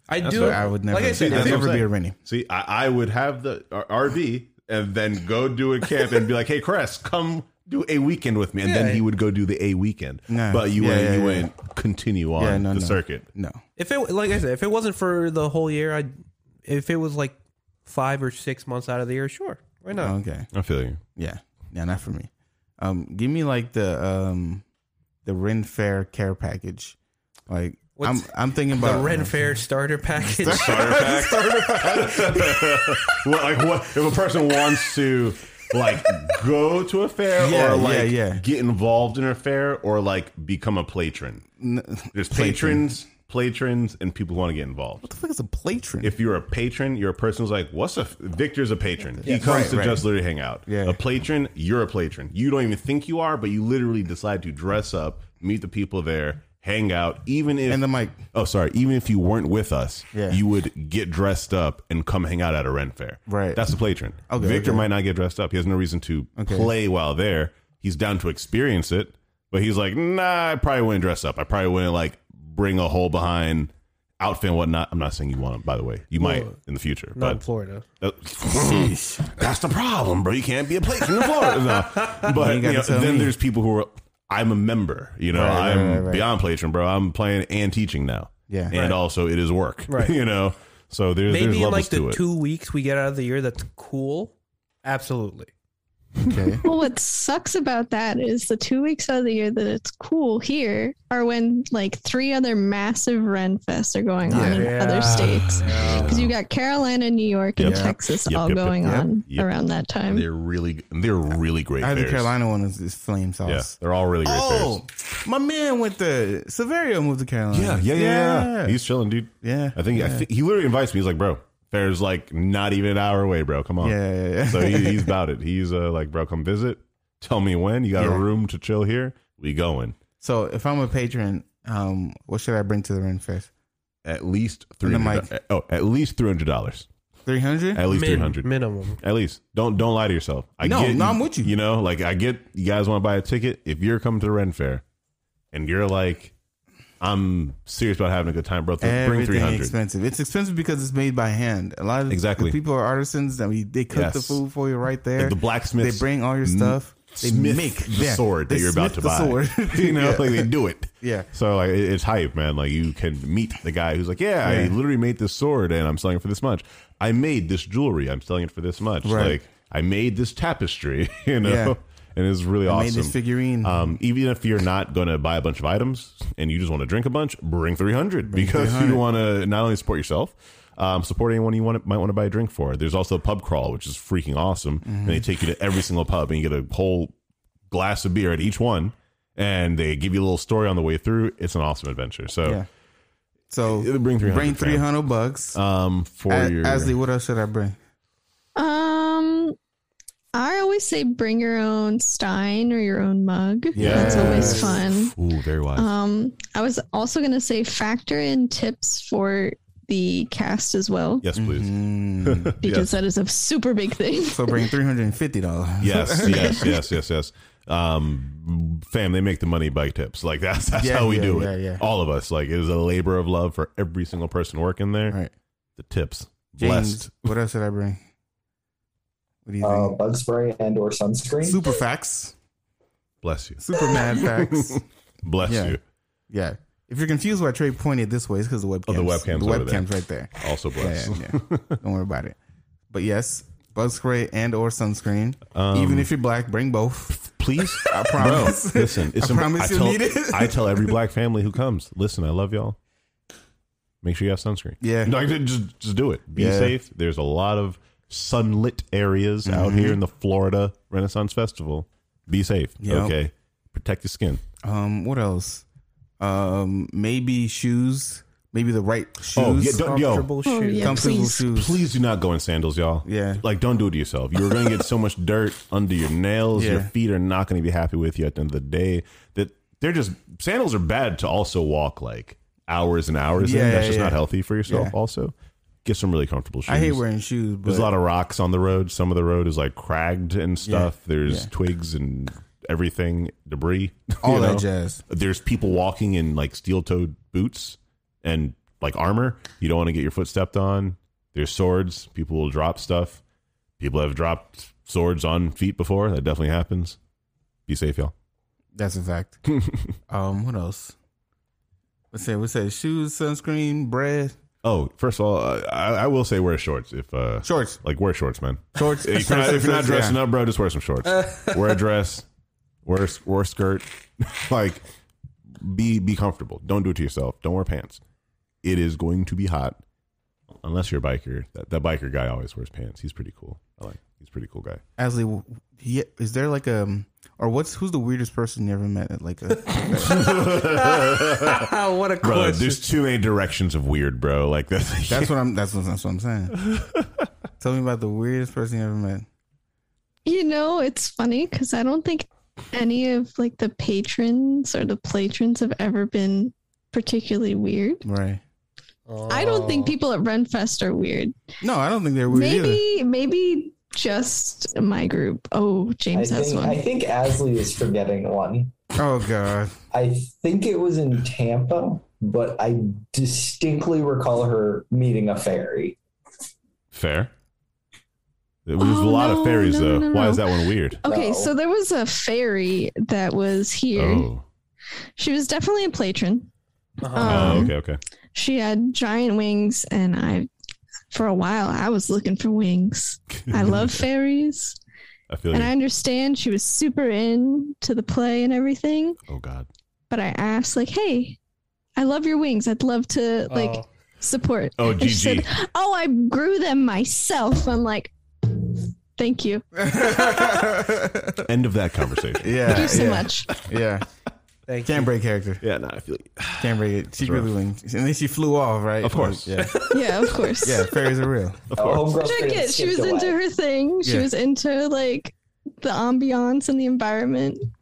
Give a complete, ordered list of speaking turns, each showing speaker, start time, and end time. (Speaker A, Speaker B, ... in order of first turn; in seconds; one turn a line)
Speaker A: 0.1-1.9
Speaker B: 0.2-13.3
Speaker C: 0.3-2.2
Speaker A: 8.6-9.0
Speaker C: 10.3-11.5
Speaker C: 12.4-13.6
Speaker A: 13.8-20.1
Speaker C: 19.9-20.5
Speaker B: 20.5-21.0
Speaker C: 21.2-24.6
Speaker C: 25.2-27.0
Speaker C: 27.5-29.3
Speaker A: 28.0-31.0
Speaker C: 30.2-33.1
Speaker B: 30.4-41.5
Speaker C: 37.4-38.4
Speaker C: 41.6-42.9
Speaker B: 42.1-45.1
Speaker C: 45.0-46.1
Speaker B: 46.0-77.4
Speaker C: 49.2-50.1
Speaker A: 49.2-49.6
Speaker C: 50.7-51.0
Speaker C: 57.7-58.2
Speaker C: 60.1-60.4
Speaker C: 63.3-63.6
Speaker C: 64.3-64.9
Speaker C: 66.4-66.7
Speaker A: 76.2-76.5
Speaker A: 77.2-77.8
Speaker B: 78.0-92.2
Speaker C: 78.4-79.3
Speaker A: 81.2-82.0
Speaker C: 82.3-83.4
Speaker C: 85.3-86.3
Speaker C: 88.5-88.7
Speaker A: 88.7-89.0
Speaker A: 89.9-90.2
Speaker A: 91.3-95.5
Speaker C: 96.3-96.6
Speaker D: 96.6-110.3
Speaker C: 104.3-104.7
Speaker A: 104.5-106.2
Speaker B: 105.0-106.3
Speaker B: 107.6-109.5
Speaker C: 107.6-108.0
Speaker C: 108.8-109.1
Speaker B: 110.1-112.3
Speaker C: 111.8-118.8
Speaker B: 113.5-114.8
Speaker B: 117.5-130.0
Speaker C: 119.4-120.3
Speaker C: 123.8-125.1
Speaker C: 128.0-128.3
Speaker C: 130.2-133.5
Speaker B: 134.1-136.9
Speaker C: 134.8-135.3
Speaker C: 137.3-137.8
Speaker B: 137.8-144.8
Speaker A: 137.9-139.0
Speaker C: 140.6-141.6
Speaker B: 145.5-146.3
Speaker B: 147.0-149.7
Speaker C: 148.8-161.3
Speaker B: 152.1-152.6
Speaker B: 153.9-154.4
Speaker B: 155.2-187.1
Speaker C: 164.4-164.8
Speaker C: 169.0-169.4
Speaker C: 171.4-171.8
Speaker C: 172.7-173.9
Speaker C: 178.3-179.0
Speaker C: 184.8-185.3
Speaker B: 187.7-192.6
Speaker C: 193.5-195.6
Speaker B: 193.7-194.9
Speaker B: 195.5-197.0
Speaker C: 196.3-197.8
Speaker D: 198.6-199.6
Speaker D: 200.3-205.2
Speaker C: 203.8-204.8
Speaker B: 203.8-205.9
Speaker D: 205.8-211.3
Speaker B: 211.2-212.9
Speaker C: 211.4-212.6
Speaker D: 212.6-214.6
Speaker C: 214.3-216.9
Speaker B: 215.8-225.2
Speaker C: 220.7-221.8
Speaker B: 225.8-227.3
Speaker C: 226.6-228.0
Speaker C: 229.4-230.0
Speaker E: 229.6-231.6
Speaker C: 231.4-232.4
Speaker B: 233.2-235.8
Speaker C: 233.6-234.8
Speaker C: 235.4-235.8
Speaker C: 236.3-242.4
Speaker B: 238.9-241.8
Speaker C: 242.9-247.2
Speaker B: 245.5-246.1
Speaker B: 247.1-252.8
Speaker C: 247.8-251.0
Speaker B: 254.0-264.4
Speaker C: 254.8-255.2
Speaker C: 256.4-256.8
Speaker C: 259.4-260.0
Speaker C: 262.8-263.2
Speaker C: 264.6-265.6
Speaker C: 266.2-270.0
Speaker B: 269.3-270.3
Speaker A: 269.7-271.1
Speaker D: 270.4-271.5
Speaker C: 270.8-271.9
Speaker B: 271.5-285.3
Speaker C: 273.1-273.4
Speaker C: 276.6-276.9
Speaker C: 283.4-284.9
Speaker B: 285.9-287.0
Speaker C: 286.7-287.9
Speaker B: 287.6-303.2
Speaker C: 290.6-291.5
Speaker C: 294.2-295.0
Speaker B: 303.8-307.0
Speaker B: 307.7-308.1
Speaker C: 308.8-309.4
Speaker C: 310.1-311.0
Speaker C: 312.1-314.4
Speaker B: 314.6-322.3
Speaker C: 317.4-317.8
Speaker C: 318.8-320.2
Speaker B: 322.9-324.8
Speaker B: 325.6-328.0
Speaker B: 328.6-329.8
Speaker B: 330.6-334.8
Speaker C: 335.0-340.4
Speaker A: 339.6-342.8
Speaker B: 340.0-341.7
Speaker B: 342.2-345.3
Speaker C: 345.1-346.6
Speaker B: 346.6-347.1
Speaker C: 347.6-349.3
Speaker D: 350.2-358.0
Speaker C: 358.1-358.4
Speaker A: 359.1-360.0
Speaker D: 359.3-361.3
Speaker C: 361.6-362.8
Speaker D: 362.3-366.8
Speaker E: 366.1-368.8
Speaker C: 369.0-369.8
Speaker E: 369.9-376.0
Speaker B: 376.9-377.3
Speaker B: 378.7-381.0
Speaker D: 378.8-384.3
Speaker E: 381.1-381.6
Speaker B: 383.9-384.4
Speaker D: 385.2-386.5
Speaker A: 387.0-387.7
Speaker D: 387.0-387.8
Speaker B: 387.2-388.0
Speaker D: 388.3-390.5
Speaker D: 391.1-394.8
Speaker B: 393.5-393.9
Speaker B: 395.3-395.7
Speaker D: 395.5-399.2
Speaker B: 399.3-399.7
Speaker D: 400.1-401.4
Speaker D: 402.0-409.6
Speaker A: 403.5-403.9
Speaker B: 404.8-405.5
Speaker C: 409.8-411.5
Speaker B: 411.4-413.1
Speaker C: 412.4-414.1
Speaker D: 412.6-413.5
Speaker A: 414.7-415.1
Speaker C: 414.9-415.6
Speaker B: 415.6-417.5
Speaker C: 416.6-419.7
Speaker B: 419.0-419.8
Speaker D: 419.9-421.1
Speaker C: 420.6-421.7
Speaker B: 421.7-422.2
Speaker E: 421.7-423.4
Speaker D: 422.1-427.6
Speaker C: 424.0-424.3